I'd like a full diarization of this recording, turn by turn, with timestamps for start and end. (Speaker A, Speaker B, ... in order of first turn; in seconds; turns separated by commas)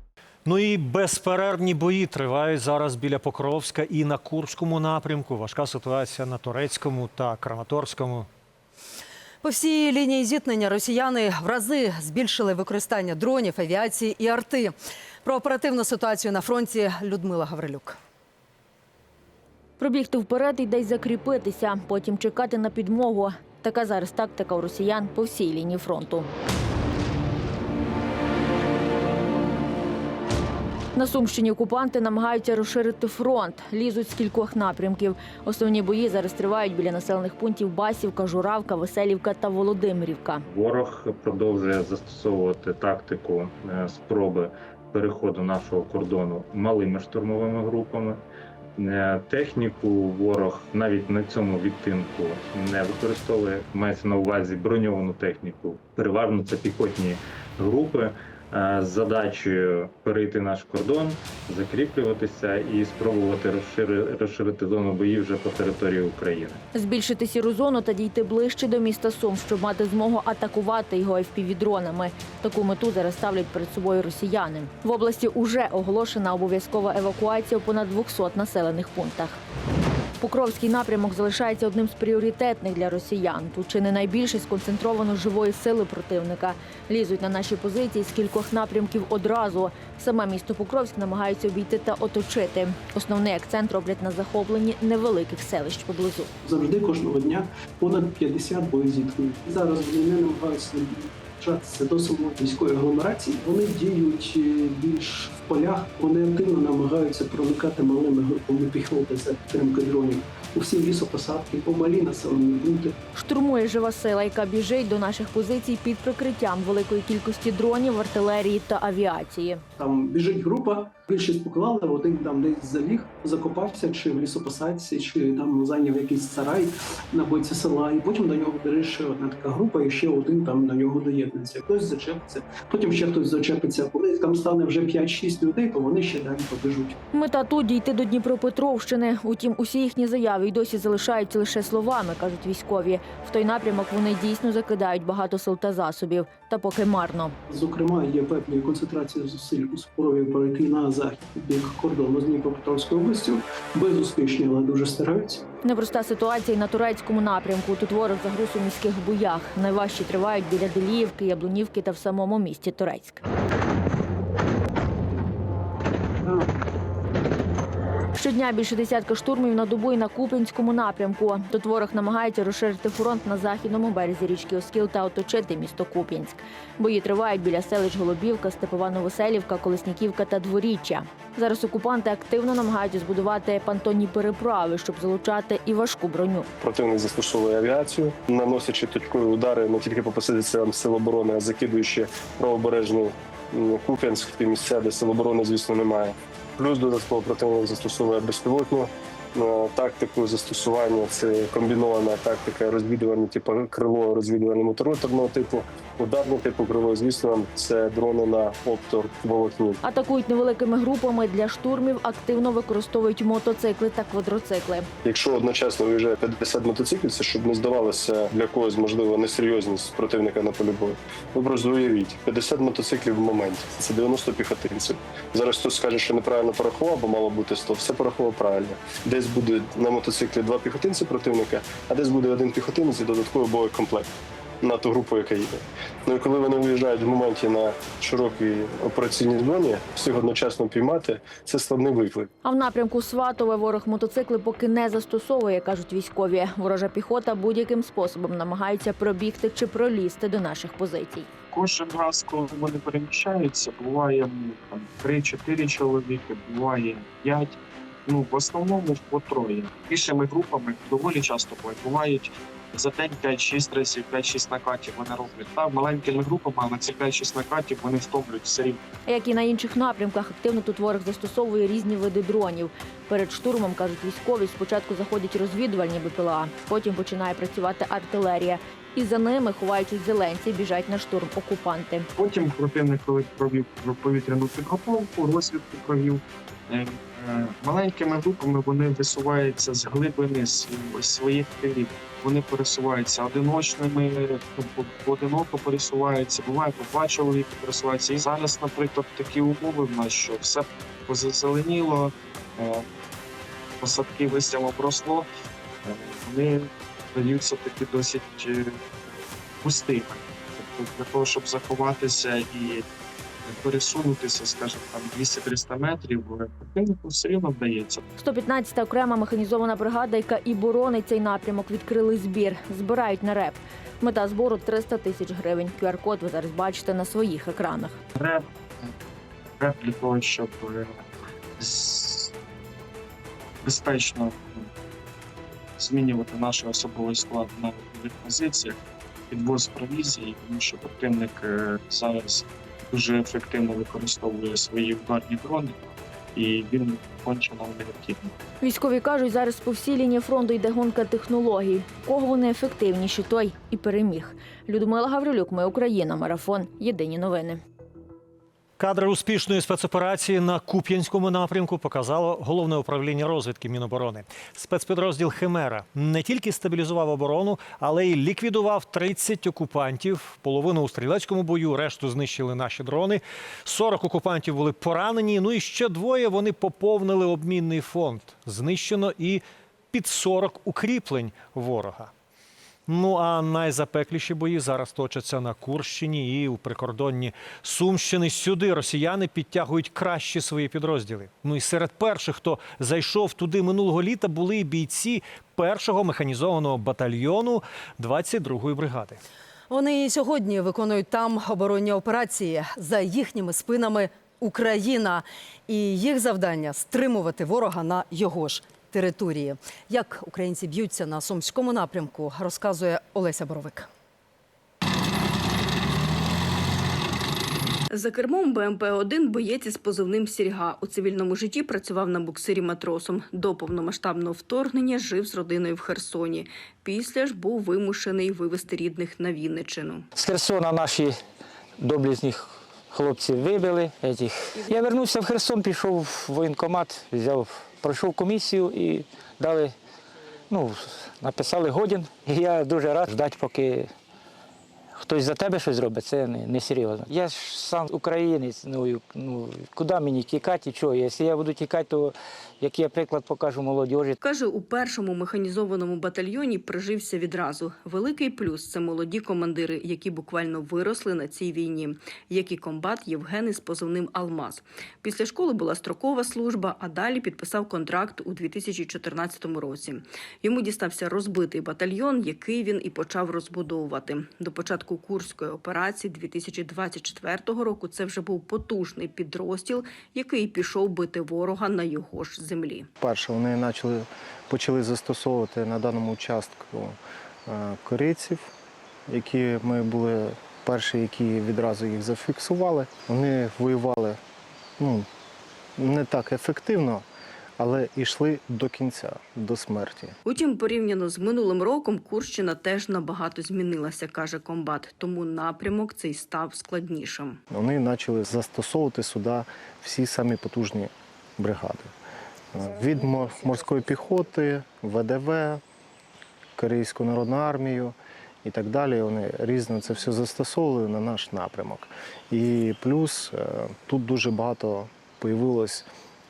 Speaker A: 0.5-8.3, Speaker B: 9.4-18.0, Speaker C: 19.8-26.3, Speaker C: 30.9-40.4, Speaker D: 40.5-48.2, Speaker D: 48.8-66.6, Speaker C: 66.7-79.4, Speaker C: 80.2-96.3, Speaker E: 96.4-113.0, Speaker C: 113.2-119.6, Speaker E: 119.8-137.0, Speaker C: 137.1-147.4, Speaker E: 147.5-155.4, Speaker C: 155.6-163.2, Speaker C: 168.2-186.5, Speaker F: 186.6-209.8, Speaker C: 209.8-214.9, Speaker F: 215.0-242.3, Speaker C: 242.4-251.3, Speaker G: 251.5-268.8, Speaker C: 269.1-282.1, Speaker G: 282.2-302.9, Speaker G: 303.8-305.3, Speaker G: 305.8-309.1, Speaker G: 309.6-312.9, Speaker G: 313.4-318.0, Speaker C: 318.2-328.0, Speaker G: 328.1-328.9, Speaker G: 329.6-331.0, Speaker G: 331.6-332.3, Speaker G: 333.6-334.7, Speaker G: 335.8-338.8, Speaker G: 339.3-345.8, Speaker G: 346.4-348.2, Speaker C: 348.6-357.6, Speaker A: 358.8-379.4, Speaker A: 379.9-382.1, Speaker A: 382.9-399.2, Speaker B: 399.7-413.9, Speaker H: 417.9-430.1, Speaker I: 430.2-431.2, Speaker I: 431.8-439.8, Speaker I: 440.5-443.9, Speaker I: 445.0-454.2, Speaker H: 454.2-482.9, Speaker J: 483.0-488.5, Speaker J: 489.1-494.2, Speaker J: 494.8-495.1, Speaker J: 495.8-497.1, Speaker J: 497.6-500.2, Speaker H: 500.2-507.4, Speaker J: 507.5-511.9, Speaker J: 512.5-515.6, Speaker J: 516.6-525.9